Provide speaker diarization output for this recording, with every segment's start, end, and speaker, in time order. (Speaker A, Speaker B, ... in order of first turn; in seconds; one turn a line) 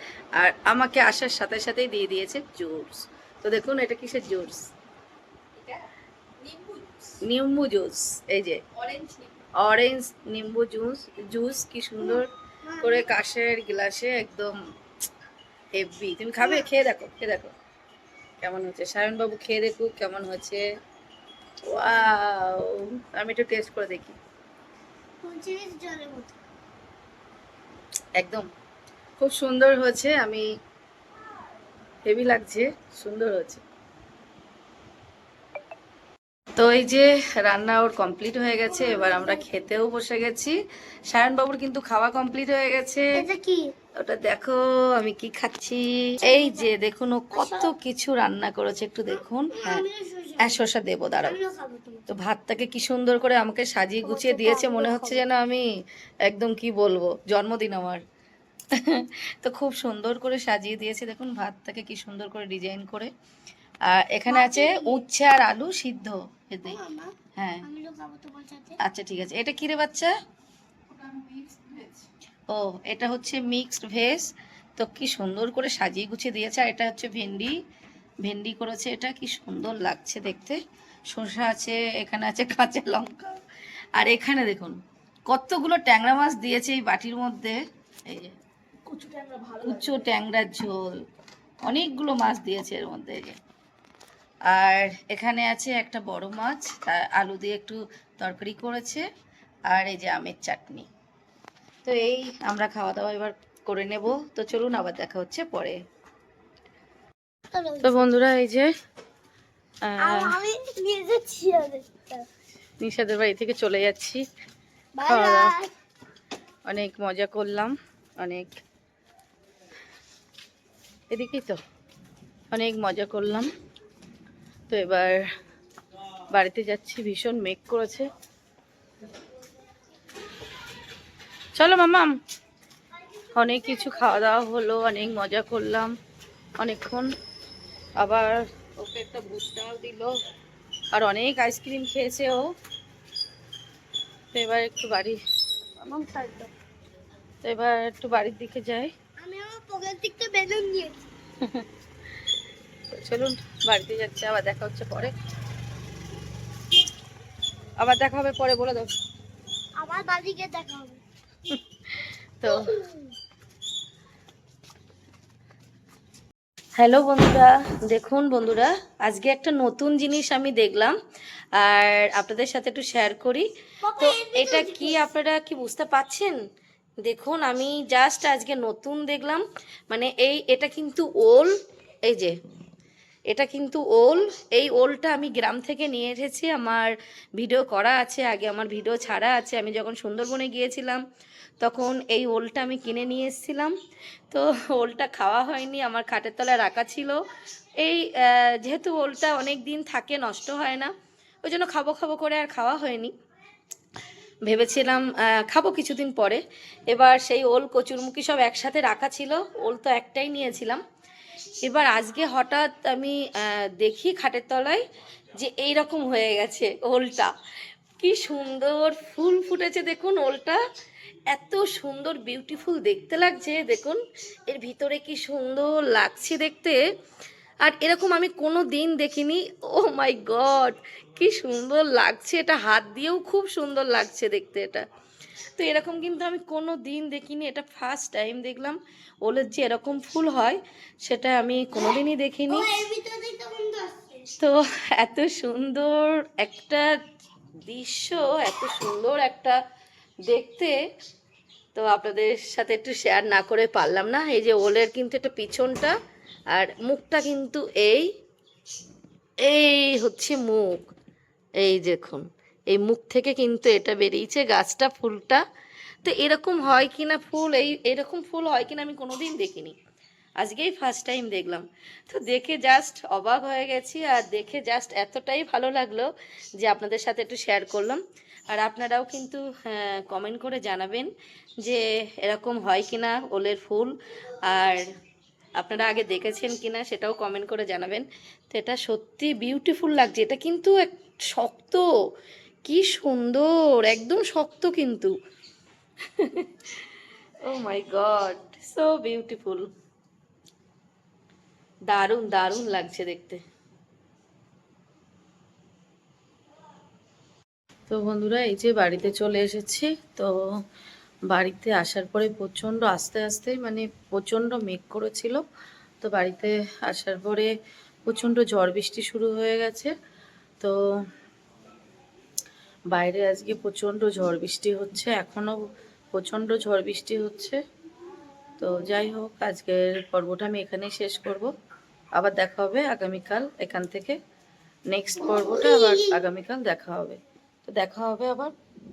Speaker A: 0.3-4.6
Speaker A: 7.2-12.3
Speaker B: 12.0-13.1
Speaker A: 12.8-14.5
Speaker A: 15.8-17.5
Speaker B: 16.4-16.7
Speaker A: 18.4-20.6
Speaker A: 21.6-24.1
Speaker B: 25.2-26.4
Speaker A: 28.2-28.4
Speaker A: 29.2-30.4
Speaker A: 32.0-33.6
Speaker A: 36.6-40.6
Speaker B: 38.6-39.4
Speaker A: 41.1-43.1
Speaker B: 43.1-43.7
Speaker A: 44.0-49.8
Speaker B: 46.2-46.7
Speaker B: 47.3-47.7
Speaker B: 49.1-50.6
Speaker A: 50.4-51.4
Speaker B: 51.2-52.1
Speaker A: 52.1-55.6
Speaker B: 54.0-55.2
Speaker A: 56.2-58.0
Speaker A: 58.7-63.1
Speaker A: 63.9-66.8
Speaker B: 64.3-65.0
Speaker B: 66.7-68.8
Speaker A: 67.3-67.7
Speaker A: 68.8-70.1
Speaker A: 71.2-71.8
Speaker A: 72.5-77.5
Speaker A: 78.2-80.6
Speaker A: 81.1-83.4
Speaker A: 84.0-88.3
Speaker A: 88.9-90.9
Speaker A: 91.6-93.4
Speaker A: 94.5-99.0
Speaker A: 99.7-100.9
Speaker A: 101.8-105.8
Speaker B: 107.5-108.0
Speaker A: 107.8-108.7
Speaker A: 109.8-110.4
Speaker B: 110.0-112.3
Speaker A: 112.8-114.2
Speaker B: 115.0-115.7
Speaker A: 115.1-115.5
Speaker A: 116.7-118.5
Speaker A: 121.1-121.6
Speaker A: 122.5-123.5
Speaker A: 124.7-125.2
Speaker A: 126.3-128.1
Speaker A: 131.6-132.1
Speaker A: 133.3-135.9
Speaker A: 136.6-137.1
Speaker A: 138.0-140.1
Speaker A: 140.9-142.5
Speaker A: 144.3-145.2
Speaker B: 145.8-146.5
Speaker A: 147.4-148.9
Speaker B: 149.2-151.1
Speaker A: 152.9-155.1
Speaker A: 157.8-158.9
Speaker B: 159.8-161.0
Speaker A: 161.5-162.7
Speaker B: 162.4-163.1
Speaker A: 166.8-170.9
Speaker A: 171.6-173.4
Speaker B: 173.8-175.0
Speaker A: 174.0-176.4
Speaker A: 177.0-181.5
Speaker A: 182.1-182.3
Speaker A: 183.3-191.0
Speaker A: 191.6-193.7
Speaker A: 194.3-197.2
Speaker A: 197.8-200.9
Speaker A: 201.4-203.1
Speaker A: 204.5-210.8
Speaker A: 211.6-214.8
Speaker A: 215.3-217.3
Speaker A: 218.0-220.6
Speaker A: 221.3-226.8
Speaker A: 227.6-234.8
Speaker A: 235.6-242.7
Speaker B: 242.5-244.3
Speaker A: 244.4-246.9
Speaker A: 247.6-249.6
Speaker A: 250.3-250.8
Speaker A: 251.7-255.9
Speaker A: 256.5-258.1
Speaker A: 259.4-260.9
Speaker A: 261.6-265.4
Speaker A: 266.0-269.8
Speaker A: 270.4-276.1
Speaker A: 276.6-281.1
Speaker A: 281.6-283.9
Speaker A: 284.5-284.8
Speaker A: 285.6-291.8
Speaker A: 292.6-295.1
Speaker A: 296.2-296.7
Speaker A: 297.4-299.7
Speaker A: 301.9-303.4
Speaker A: 307.9-310.4
Speaker A: 311.3-315.4
Speaker A: 316.0-317.5
Speaker A: 318.1-319.9
Speaker A: 322.9-327.6
Speaker A: 328.6-331.5
Speaker A: 332.1-334.2
Speaker A: 334.9-338.5
Speaker B: 335.2-336.2